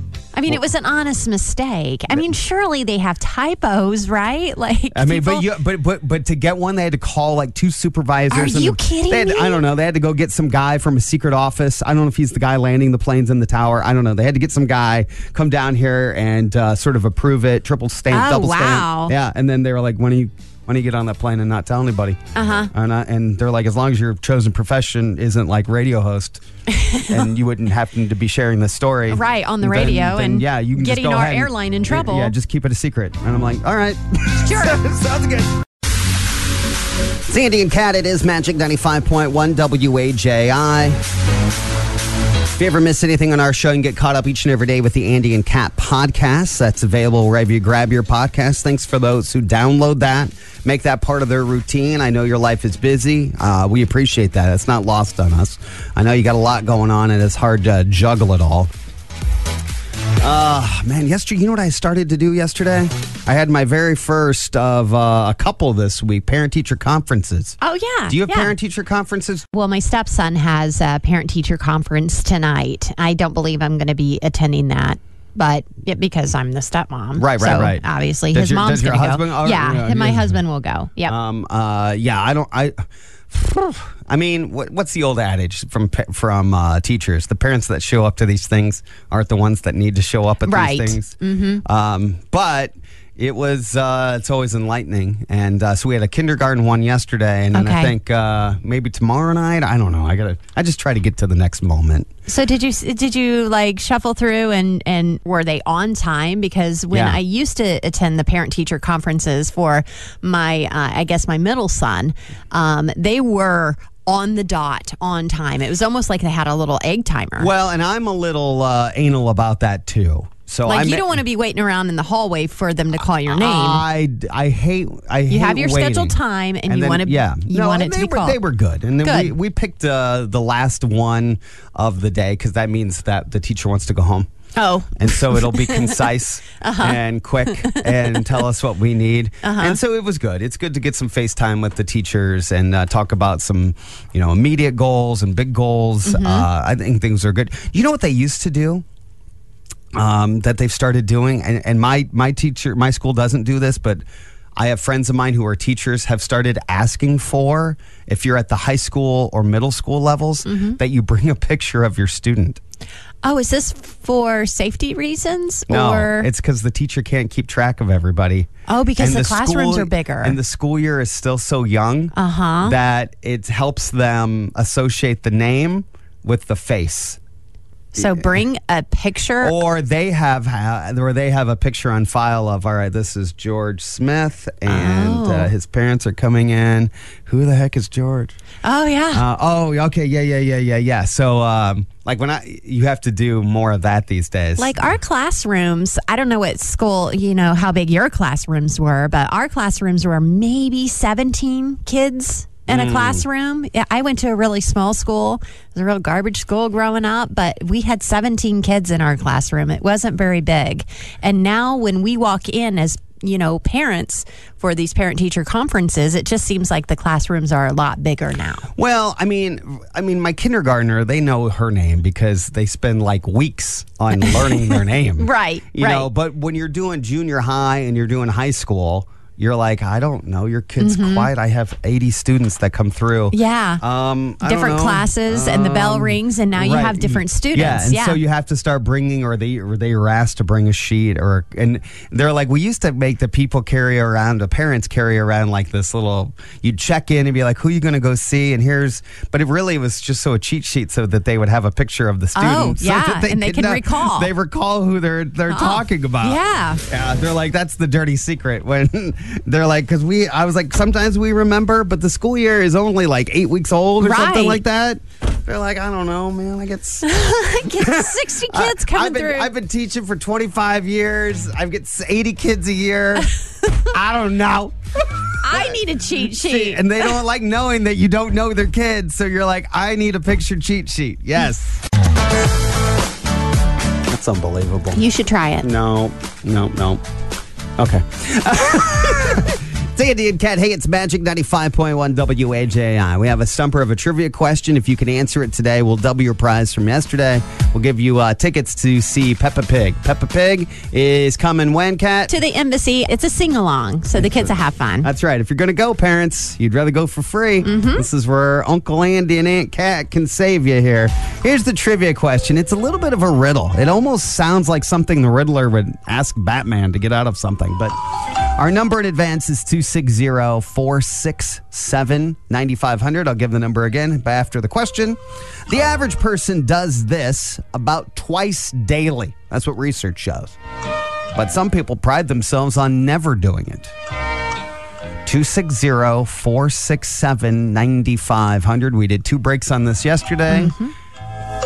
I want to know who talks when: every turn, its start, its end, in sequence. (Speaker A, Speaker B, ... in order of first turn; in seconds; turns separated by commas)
Speaker A: 0.3-5.5, Speaker B: 4.9-26.4, Speaker A: 8.3-9.6, Speaker A: 18.1-19.1, Speaker A: 22.4-22.7, Speaker A: 26.7-27.2, Speaker B: 27.1-35.6, Speaker A: 29.1-32.3, Speaker A: 34.4-34.8, Speaker B: 37.3-41.0, Speaker B: 42.5-58.7, Speaker B: 60.2-69.5, Speaker A: 67.6-68.5, Speaker A: 69.5-81.2, Speaker B: 77.2-80.4, Speaker B: 81.1-102.1, Speaker A: 90.5-91.6, Speaker A: 97.5-97.9, Speaker A: 102.3-117.5, Speaker B: 106.9-107.2, Speaker B: 117.4-121.2, Speaker A: 120.7-123.8, Speaker B: 123.3-134.3, Speaker A: 125.3-128.4, Speaker A: 129.0-129.3, Speaker A: 134.6-136.0, Speaker B: 135.0-148.8, Speaker A: 136.6-138.3, Speaker A: 139.4-139.8, Speaker A: 146.1-146.5, Speaker B: 149.9-154.0, Speaker B: 154.6-162.6, Speaker A: 160.4-160.8, Speaker A: 163.2-166.3, Speaker B: 165.7-177.2, Speaker A: 168.7-170.4, Speaker A: 172.2-172.8, Speaker A: 177.9-179.6, Speaker B: 178.0-178.3, Speaker B: 179.4-188.4, Speaker A: 184.7-185.5, Speaker A: 188.6-189.2, Speaker B: 189.1-194.9, Speaker A: 194.6-218.7, Speaker B: 202.7-203.2, Speaker B: 218.8-267.1, Speaker A: 224.2-226.1, Speaker A: 230.8-231.3, Speaker A: 233.3-233.8, Speaker A: 234.4-238.2, Speaker A: 252.3-254.3, Speaker A: 255.5-256.8, Speaker A: 264.0-264.6, Speaker A: 267.0-269.5, Speaker B: 267.7-273.3, Speaker B: 273.9-274.8, Speaker A: 275.4-277.1, Speaker B: 275.4-281.8, Speaker B: 284.1-285.0, Speaker A: 284.9-285.7, Speaker B: 285.6-287.0, Speaker B: 287.8-302.4, Speaker A: 302.3-305.1, Speaker B: 304.2-330.6, Speaker A: 307.6-308.1, Speaker B: 331.3-333.9, Speaker B: 335.2-340.8, Speaker A: 340.5-340.9